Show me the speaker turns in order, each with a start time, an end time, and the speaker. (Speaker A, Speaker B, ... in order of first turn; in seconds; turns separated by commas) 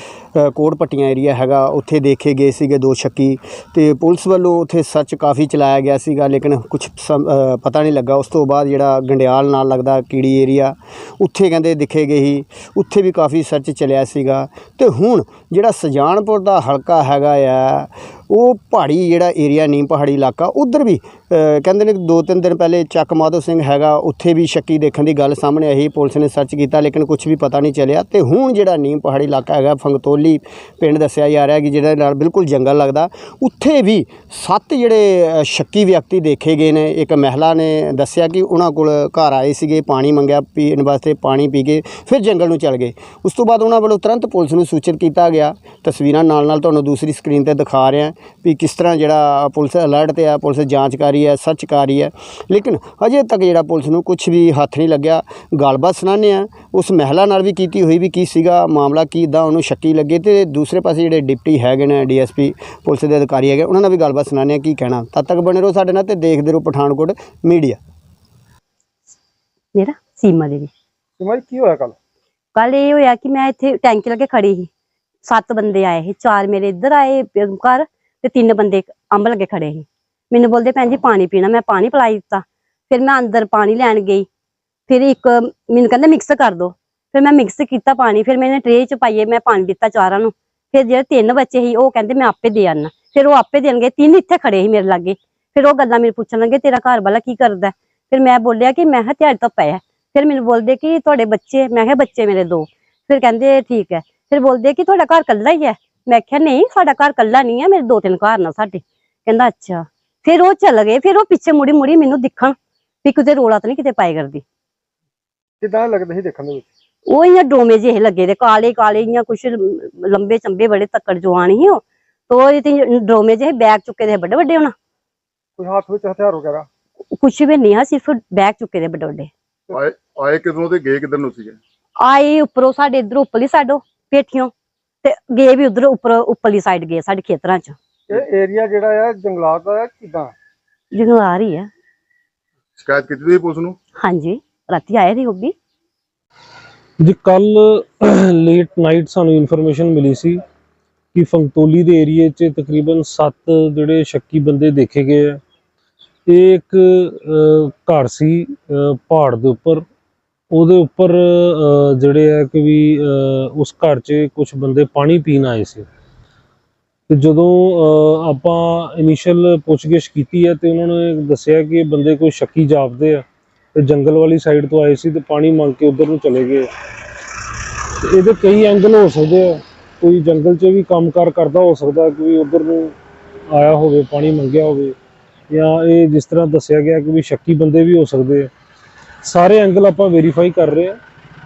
Speaker A: 0.3-67.8, Speaker B: 69.7-70.7, Speaker C: 71.2-72.0, Speaker B: 72.5-74.7, Speaker B: 75.2-84.3, Speaker B: 84.9-114.4, Speaker C: 115.6-116.7, Speaker B: 117.1-124.7, Speaker C: 125.6-126.7, Speaker B: 127.1-129.3, Speaker D: 129.7-131.6, Speaker B: 132.0-134.5, Speaker B: 135.0-137.8, Speaker C: 138.1-140.3, Speaker B: 140.9-141.7, Speaker D: 142.8-143.8, Speaker B: 144.0-145.5, Speaker E: 147.0-150.4, Speaker E: 151.1-155.4, Speaker E: 156.3-159.9, Speaker E: 160.5-165.9, Speaker E: 167.1-173.2, Speaker E: 173.8-176.7, Speaker E: 178.0-182.9, Speaker E: 183.5-185.0, Speaker E: 185.5-188.5, Speaker E: 189.2-191.0